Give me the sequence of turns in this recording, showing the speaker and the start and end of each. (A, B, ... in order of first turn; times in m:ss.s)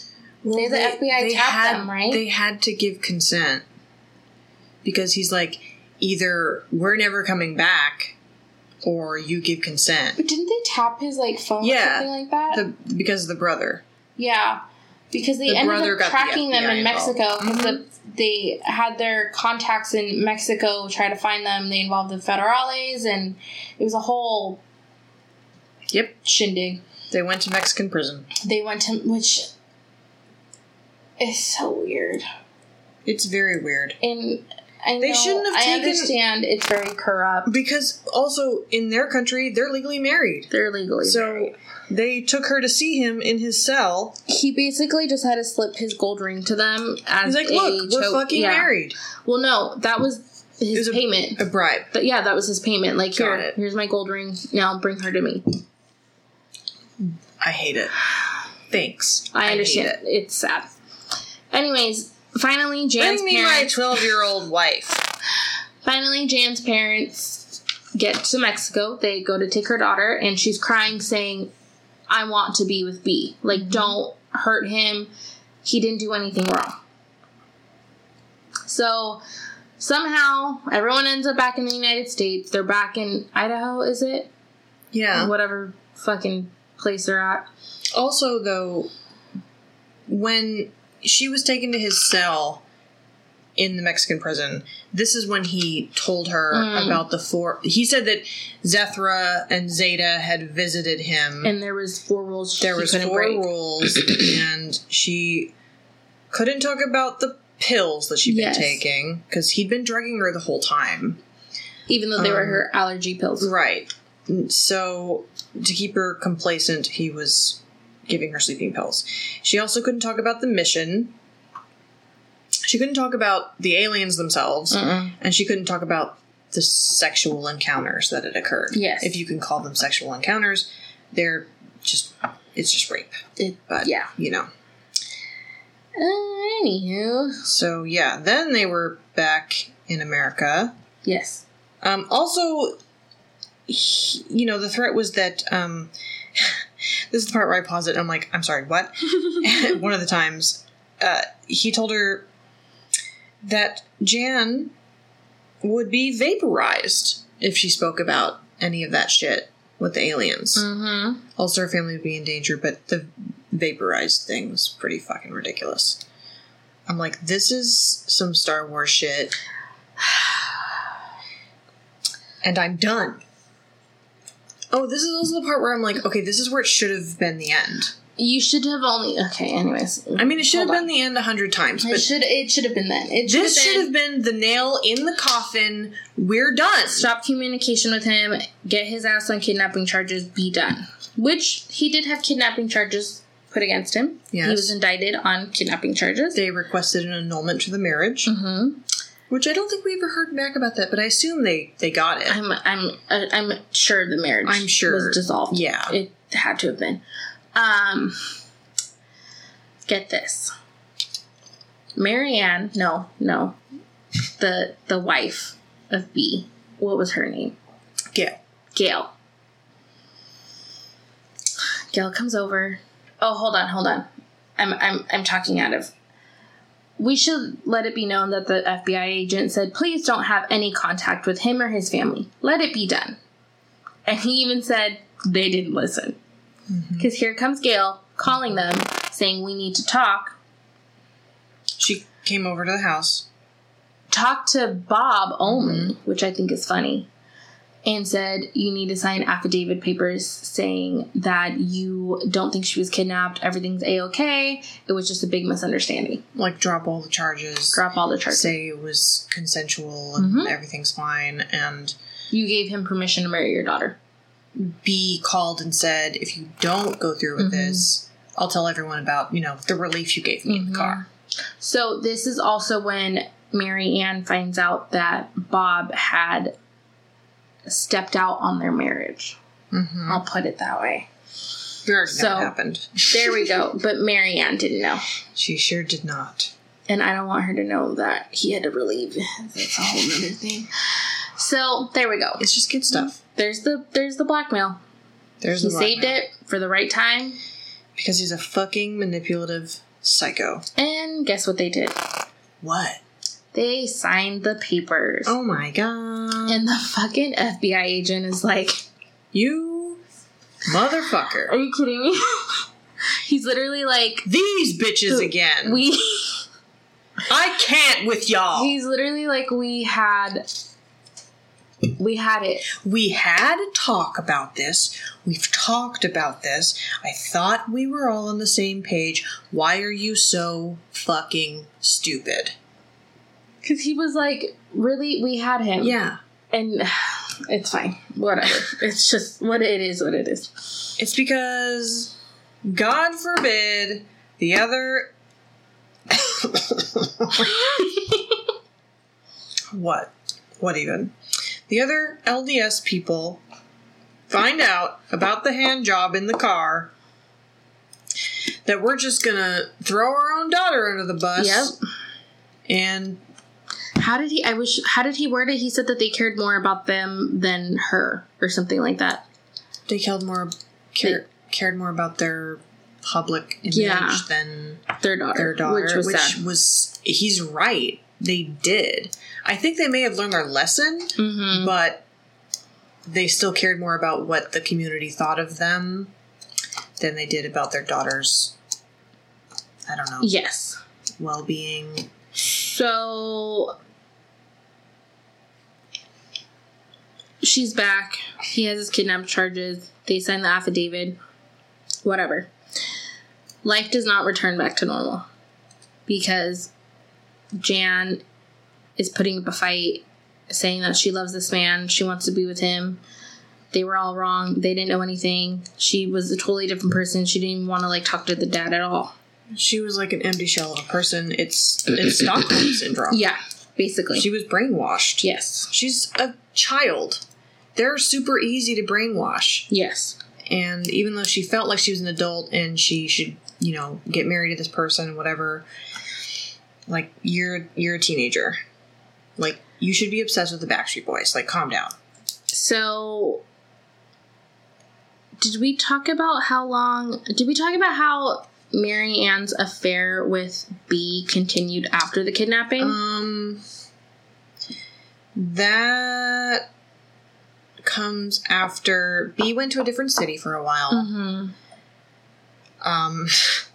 0:00.4-0:03.6 A
0:00.5-0:02.2 B
0:04.8-0:08.2 A
0:08.8-0:10.2 A
0:10.2-0:12.6 B
0:11.6-0:13.8 A
0:14.2-0:24.6 B
0:15.5-0:17.8 A
0:26.2-0:26.8 B
0:27.1-0:28.3 A
0:28.4-0:29.5 B
0:31.2-0:32.2 B
0:33.1-0:34.0 A
0:34.0-0:37.5 B
0:35.0-0:36.2 A
0:37.4-0:40.5 A
0:40.5-0:41.5 B
0:41.0-0:44.2 A
0:44.3-0:48.7 B
0:47.2-0:49.0 A
0:49.2-0:51.4 B
0:50.7-0:51.9 A
0:51.9-0:55.6 B
0:53.2-0:53.6 A
0:57.0-0:58.0 A
0:58.7-1:00.0 A
0:59.3-1:00.7 B
1:01.5-1:03.8 B
1:03.0-1:05.0 A
1:05.8-1:11.5 B
1:12.1-1:15.1 B
1:13.5-1:14.0 A
1:15.6-1:16.8 B
1:18.7-1:19.2 B
1:19.8-1:24.3 B
1:24.9-1:25.3 A
1:25.1-1:27.5 B
1:27.9-1:28.9 A
1:30.1-1:32.6 A
1:33.6-1:41.5 A
1:36.5-1:37.0 B
1:41.4-1:43.5 B
1:42.6-1:45.5 A
1:46.3-1:51.2 A
1:48.3-1:48.8 B
1:51.9-1:53.5 B
1:52.2-1:52.7 A
1:53.4-2:01.2 A
2:02.6-2:14.5 A
2:04.7-2:05.2 B
2:08.7-2:09.2 B
2:13.4-2:14.1 B
2:16.0-2:17.4 B
2:17.4-2:20.7 A
2:21.0-2:21.4 B
2:21.8-2:22.8 A
2:23.7-2:32.3 A
2:33.4-2:34.7 A
2:35.6-2:40.7 A
2:40.6-2:41.2 B
2:41.4-2:46.0 A
2:46.9-2:49.4 A
2:50.0-2:50.5 B
2:52.4-2:53.2 A
2:54.7-2:57.9 A
2:58.2-3:00.9 B
3:00.2-3:02.1 A
3:01.8-3:03.9 B
3:03.3-3:07.1 A
3:06.9-3:16.4 B
3:14.3-3:14.7 A
3:16.3-3:18.3 A
3:18.3-3:18.8 B
3:19.3-3:22.4 A
3:22.3-3:27.0 B
3:24.4-3:26.0 A
3:27.6-3:28.2 B
3:29.9-3:30.5 B
3:32.0-3:33.6 B
3:34.4-3:37.6 B
3:38.7-3:39.1 B
3:41.9-3:44.1 B
3:44.6-3:45.9 B
3:47.0-3:53.2 B
3:54.1-3:56.2 B
3:56.7-3:57.1 A
3:57.0-4:00.4 B
4:01.8-4:03.3 A
4:04.1-4:07.1 B
4:05.4-4:06.0 A
4:07.8-4:16.2 B
4:16.4-4:22.0 A
4:17.7-4:18.5 B
4:20.2-4:20.5 B
4:22.3-4:24.0 B
4:24.6-4:31.0 A
4:27.4-4:27.9 B
4:30.5-4:31.1 B
4:31.6-4:36.6 B
4:37.7-4:39.4 B
4:39.7-4:40.2 A
4:40.1-4:41.1 B
4:41.8-4:43.5 A
4:42.1-4:42.5 B
4:43.1-4:45.0 B
4:45.4-4:46.5 A
4:46.9-4:50.7 B
4:51.4-4:52.5 B
4:52.4-4:53.2 A
4:53.2-4:54.8 B
4:55.4-4:56.2 A
4:55.5-4:57.4 B
4:58.0-5:00.6 A
5:00.8-5:02.0 B
5:02.6-5:03.0 A
5:03.5-5:05.4 B
5:05.3-5:06.7 A
5:06.5-5:08.8 B
5:09.3-5:10.0 A
5:10.6-5:11.5 A
5:11.4-5:12.7 B
5:13.2-5:14.3 B
5:14.2-5:15.8 A
5:15.1-5:16.4 B
5:17.3-5:18.7 A
5:18.6-5:20.5 B
5:22.0-5:22.7 B
5:22.8-5:32.6 A
5:33.6-5:36.0 B
5:35.8-5:36.2 A
5:36.5-5:40.9 B
5:41.0-5:42.1 A
5:42.7-5:45.1 A
5:46.1-5:47.9 A
5:47.4-5:48.2 B
5:49.7-5:51.1 A
5:51.7-5:53.4 A
5:54.3-5:56.9 A
5:58.6-6:01.7 A
6:01.4-6:01.8 B
6:02.7-6:03.2 A
6:04.0-6:09.2 B
6:09.9-6:22.0 A
6:13.7-6:14.2 B
6:15.0-6:16.4 B
6:21.2-6:21.8 B
6:23.0-6:26.1 A
6:27.0-6:28.6 A
6:29.9-6:30.3 A
6:30.2-6:30.8 B
6:31.2-6:32.1 A
6:32.4-6:33.8 B
6:37.4-6:41.2 B
6:42.0-6:42.5 B
6:43.6-6:45.3 B
6:46.1-6:46.7 B
6:47.6-6:48.2 B
6:49.0-6:53.0 B
6:53.7-6:59.1 B
6:59.5-7:03.2 A
7:03.1-7:04.3 B
7:04.1-7:07.2 A
7:05.2-7:05.7 B
7:07.8-7:09.7 A
7:09.7-7:10.2 B
7:10.5-7:15.7 A
7:16.9-7:18.6 A
7:19.4-7:22.0 A
7:22.5-7:23.4 B
7:25.4-7:33.0 B
7:32.8-7:33.6 A
7:35.4-7:36.7 A
7:37.8-7:41.1 A
7:40.9-7:41.5 B
7:42.8-7:43.6 A